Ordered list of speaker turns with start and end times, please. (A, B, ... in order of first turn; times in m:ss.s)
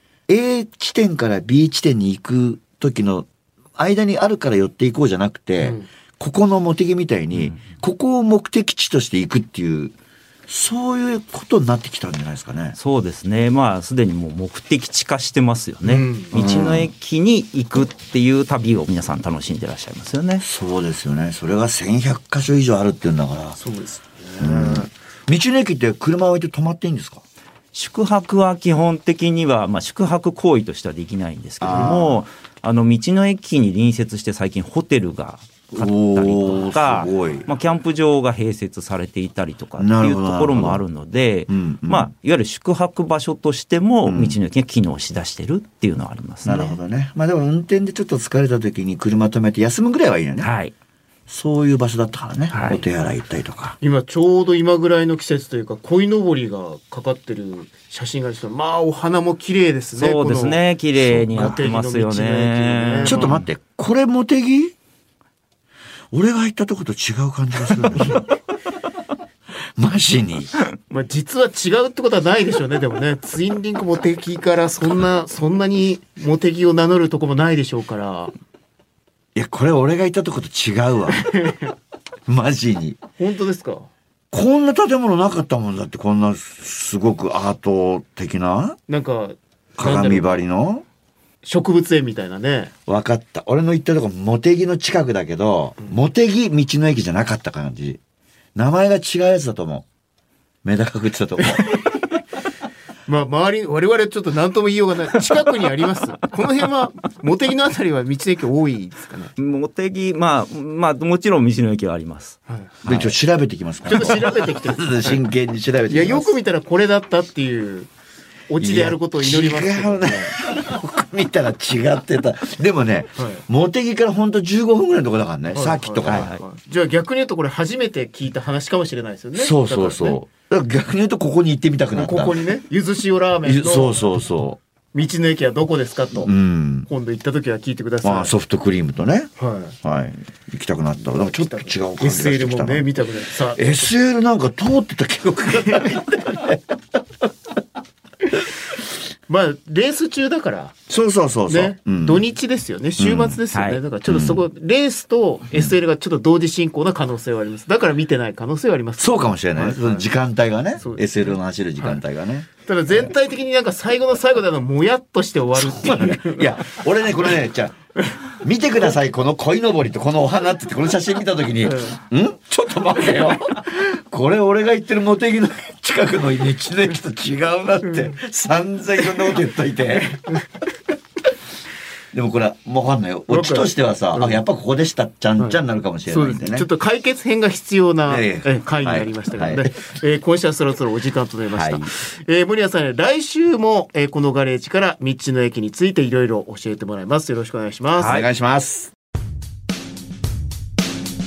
0:00.3-0:10.0 A
0:05.6-0:05.9 B
0:07.3-0:07.6 C
0:10.5-0:12.8 A
0:12.8-0:20.4 C
0:15.8-0:16.3 B
0:16.3-0:16.9 A
0:20.4-0:23.6 A
0:23.6-0:24.9 B
0:24.4-0:27.2 A
0:27.7-0:46.8 C
0:31.6-0:32.2 A
0:35.7-0:37.5 A
0:39.8-0:40.8 A
0:41.5-0:42.1 A
0:44.0-0:44.4 A
0:46.4-0:50.5 A
0:50.4-0:50.7 C
0:51.3-0:53.8 A
0:52.5-0:52.8 B
0:52.5-0:52.8 C
0:53.8-1:03.4 B
1:00.0-1:03.5 C
1:03.0-1:04.8 A
1:06.1-1:08.3 A
1:09.8-1:10.5 A
1:10.9-1:18.3 B
1:19.4-1:21.4 A
1:21.1-1:21.7 B
1:22.3-1:23.0 A
1:23.2-1:23.9 B
1:24.3-1:28.8 A
1:28.9-1:30.4 B
1:29.8-1:30.8 A
1:31.4-1:32.7 B
1:32.9-1:38.0 A
1:38.6-1:39.9 A
1:40.6-1:41.8 A
1:41.6-1:41.8 B
1:43.1-1:49.3 B
1:49.4-1:53.0 C
1:52.5-1:53.1 B
1:52.8-1:56.4 A
1:53.8-1:55.2 B
1:55.9-1:57.9 B
1:58.5-2:00.4 B
1:58.6-2:06.3 A
2:03.2-2:03.4 B
2:05.5-2:10.2 B
2:06.1-2:06.4 C
2:09.4-2:12.5 A
2:11.9-2:14.0 B
2:13.4-2:14.6 A
2:14.9-2:16.3 B
2:16.2-2:16.9 A
2:16.9-2:18.3 B
2:18.0-2:22.9 A
2:19.4-2:19.8 B
2:21.2-2:23.8 B
2:23.5-2:26.8 A
2:29.3-2:30.8 B
2:30.9-2:32.2 A
2:31.5-2:40.0 B
2:33.0-2:33.4 A
2:33.5-2:33.8 C
2:34.0-2:34.4 A
2:39.0-2:42.5 A
2:40.8-2:41.1 B
2:42.6-2:46.8 B
2:45.6-2:47.8 A
2:48.4-3:00.4 A
2:51.6-2:52.0 B
2:57.8-2:58.2 B
3:02.1-3:06.7 A
3:03.3-3:04.4 B
3:05.4-3:18.2 B
3:08.1-3:09.7 A
3:11.5-3:11.9 A
3:18.0-3:18.3 C
3:18.0-3:18.9 A